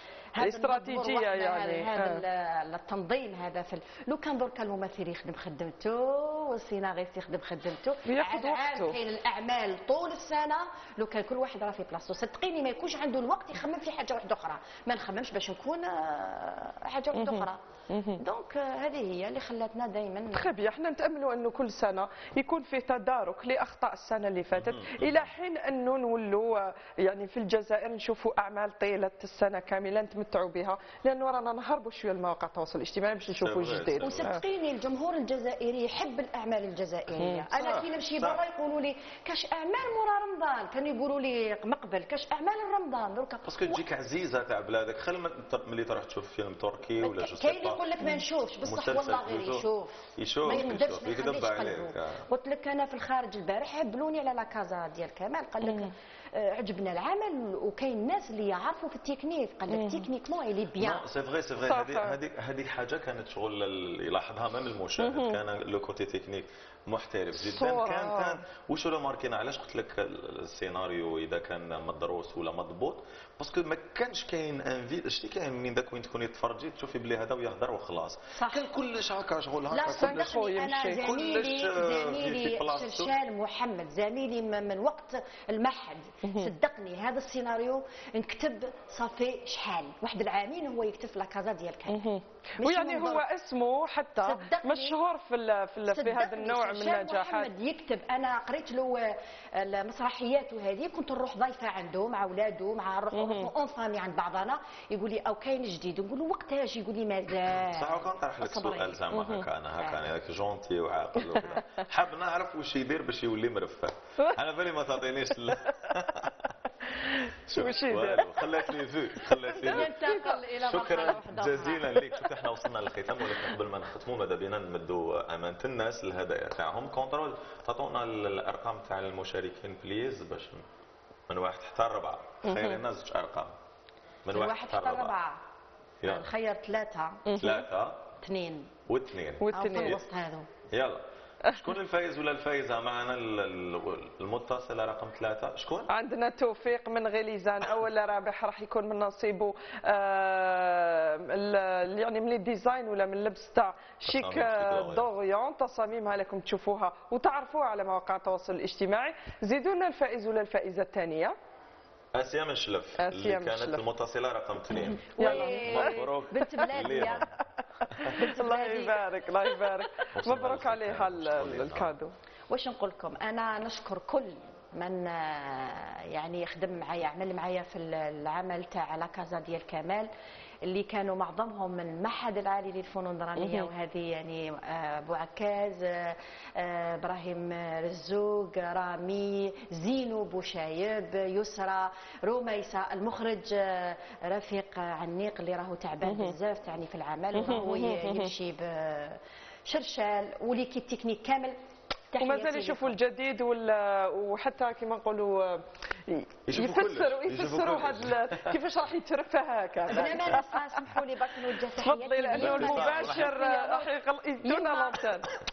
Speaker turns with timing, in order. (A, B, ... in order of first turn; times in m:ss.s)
0:00.4-0:17.6 A
0:00.4-0:02.2 B
0:08.1-0:09.0 B
0:17.1-0:18.2 B
0:18.2-0:20.5 A
0:20.3-0:34.4 B
0:24.6-0:25.3 C
0:33.4-0:34.3 C
0:34.0-0:43.8 A
0:37.2-0:37.5 B
0:37.6-0:38.4 C
0:43.4-0:47.8 C
0:47.0-1:01.0 A
0:48.6-0:52.3 C
0:55.6-0:55.9 B
0:59.7-1:00.1 B
1:00.8-1:23.1 C
1:01.7-1:02.2 B
1:05.0-1:05.4 B
1:07.4-1:08.4 B
1:18.4-1:18.7 A
1:19.7-1:33.2 A
1:20.0-1:21.0 B
1:26.2-1:26.5 B
1:31.9-1:37.5 B
1:34.2-1:35.0 A
1:35.9-1:49.0 A
1:43.1-1:43.5 B
1:47.7-1:56.5 C
1:49.1-1:49.4 B
1:57.5-1:58.3 B
1:57.5-1:59.9 C
1:59.5-2:01.9 A
1:59.6-2:00.3 B
2:00.6-2:10.6 C
2:11.3-2:13.6 C
2:12.5-2:12.8 B
2:14.2-2:15.1 C
2:14.3-2:15.4 A
2:16.0-2:16.3 C
2:16.0-2:17.2 A
2:17.3-2:17.6 B
2:17.4-2:18.0 C
2:18.2-2:18.7 A
2:18.9-2:20.0 C
2:19.4-2:20.0 B
2:19.5-2:20.5 A
2:20.7-2:25.9 C
2:25.9-2:41.4 B
2:34.1-2:35.1 C
2:42.2-2:47.3 C
2:43.0-2:43.8 B
2:44.9-2:47.3 A
2:45.2-2:46.0 B
2:48.0-2:52.1 B
2:48.3-2:49.0 A
2:50.1-2:51.9 C
2:52.5-3:00.1 A
3:00.7-3:21.6 A
3:03.4-3:03.7 B
3:16.1-3:16.4 B
3:17.4-3:18.3 B
3:22.1-3:22.9 A
3:22.2-3:30.6 B
3:26.5-3:28.5 C
3:29.9-3:35.0 A
3:31.8-3:35.3 B
3:32.3-3:33.3 C